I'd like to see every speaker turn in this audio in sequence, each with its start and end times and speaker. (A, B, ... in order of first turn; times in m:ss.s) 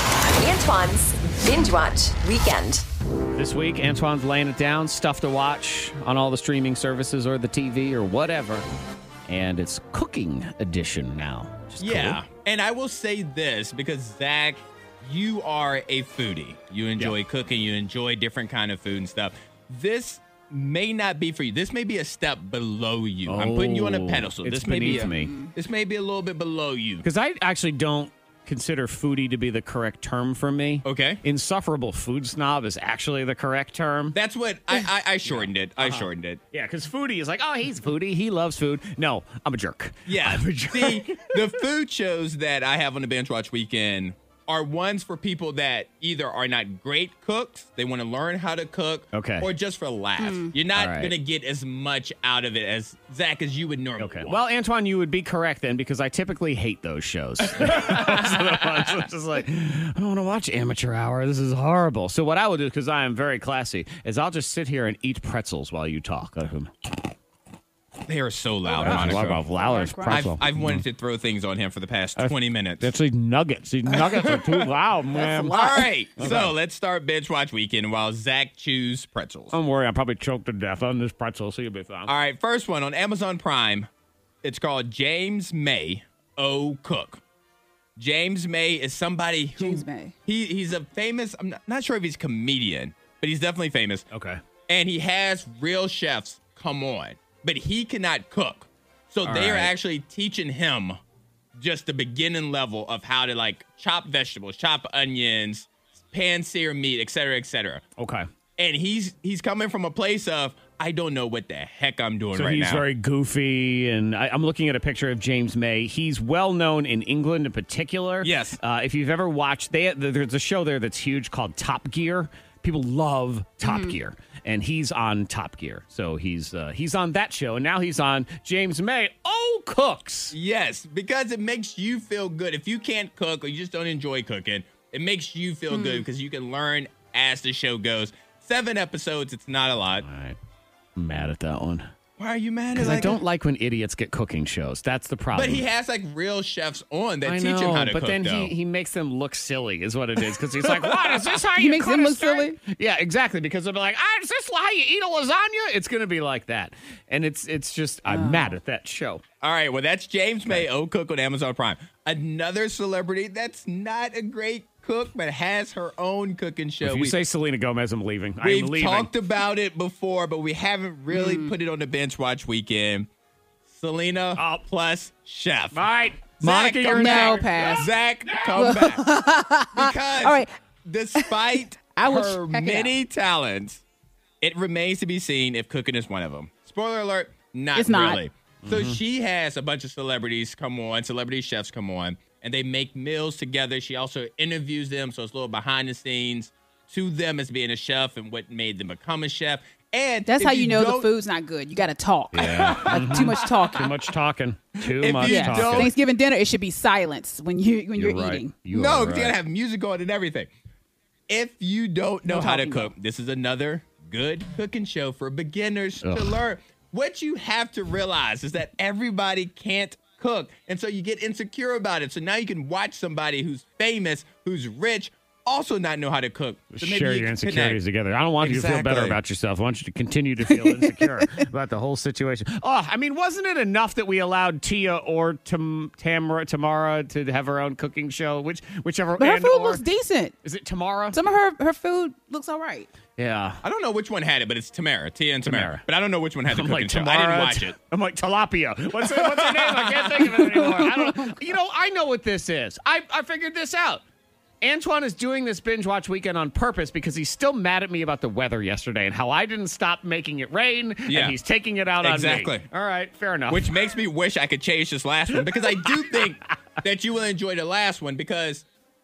0:00.2-0:02.8 A
0:03.3-0:08.6 B
0:09.3-0:12.2 B
0:11.8-0:27.0 C
0:23.2-0:25.3 B
0:24.8-0:25.5 D
0:27.0-0:34.2 B
0:30.8-0:31.2 C
0:34.1-0:36.4 C
0:35.2-0:41.3 B
0:40.0-0:54.4 C
0:49.1-0:49.5 B
0:50.2-0:50.5 D
0:50.7-0:51.1 B
0:54.0-1:06.7 B
1:08.0-1:09.5 C
1:08.7-1:10.4 D
1:08.8-1:10.8 B
1:10.1-1:12.9 C
1:12.2-1:16.5 B
1:13.9-1:19.6 C
1:19.5-1:22.1 B
1:22.0-1:23.9 C
1:24.4-1:27.2 C
1:28.0-1:34.0 C
1:29.6-1:30.1 D
1:34.1-1:34.4 B
1:34.7-1:41.0 C
1:39.2-1:39.7 B
1:41.6-1:47.8 C
1:48.0-1:48.2 B
1:48.6-1:52.9 C
1:52.3-2:10.3 B
1:58.2-1:58.6 C
2:03.6-2:04.0 D
2:10.3-2:20.0 C
2:15.7-2:16.1 D
2:20.0-2:20.4 B
2:21.0-2:21.8 B
2:22.2-2:23.2 C
2:22.8-2:25.6 B
2:25.3-2:28.5 C
2:27.2-2:39.2 B
2:30.7-2:31.1 C
2:31.6-2:32.6 D
2:38.0-2:38.6 D
2:39.4-2:47.2 C
2:46.8-2:49.1 B
2:48.4-2:53.1 C
2:51.1-2:51.5 D
2:53.7-2:55.8 C
2:54.4-2:54.6 B
2:55.7-2:57.9 B
2:56.4-2:59.1 C
2:56.9-2:57.9 D
2:58.5-3:00.5 D
2:59.7-3:03.8 C
3:02.0-3:02.9 D
3:04.4-3:21.1 C
3:07.8-3:08.2 D
3:08.6-3:09.0 B
3:20.3-3:23.9 D
3:22.3-3:25.9 B
3:22.3-3:23.8 C
3:24.8-3:25.9 C
3:25.2-3:28.6 D
3:27.9-3:29.4 B
3:28.7-3:30.5 C
3:31.3-3:47.8 C
3:32.3-3:32.9 D
3:36.0-3:36.4 B
3:46.7-3:59.8 B
3:48.4-3:49.2 C
3:50.5-3:51.1 D
3:59.2-4:00.4 D
4:00.4-4:01.2 B
4:01.1-4:02.9 D
4:03.2-4:03.6 B
4:03.6-4:07.7 C
4:05.4-4:05.8 B
4:06.5-4:14.0 B
4:09.0-4:10.5 C
4:14.6-4:23.7 B
4:21.1-4:21.4 C
4:22.0-4:22.6 C
4:23.5-4:28.6 C
4:25.6-4:26.2 B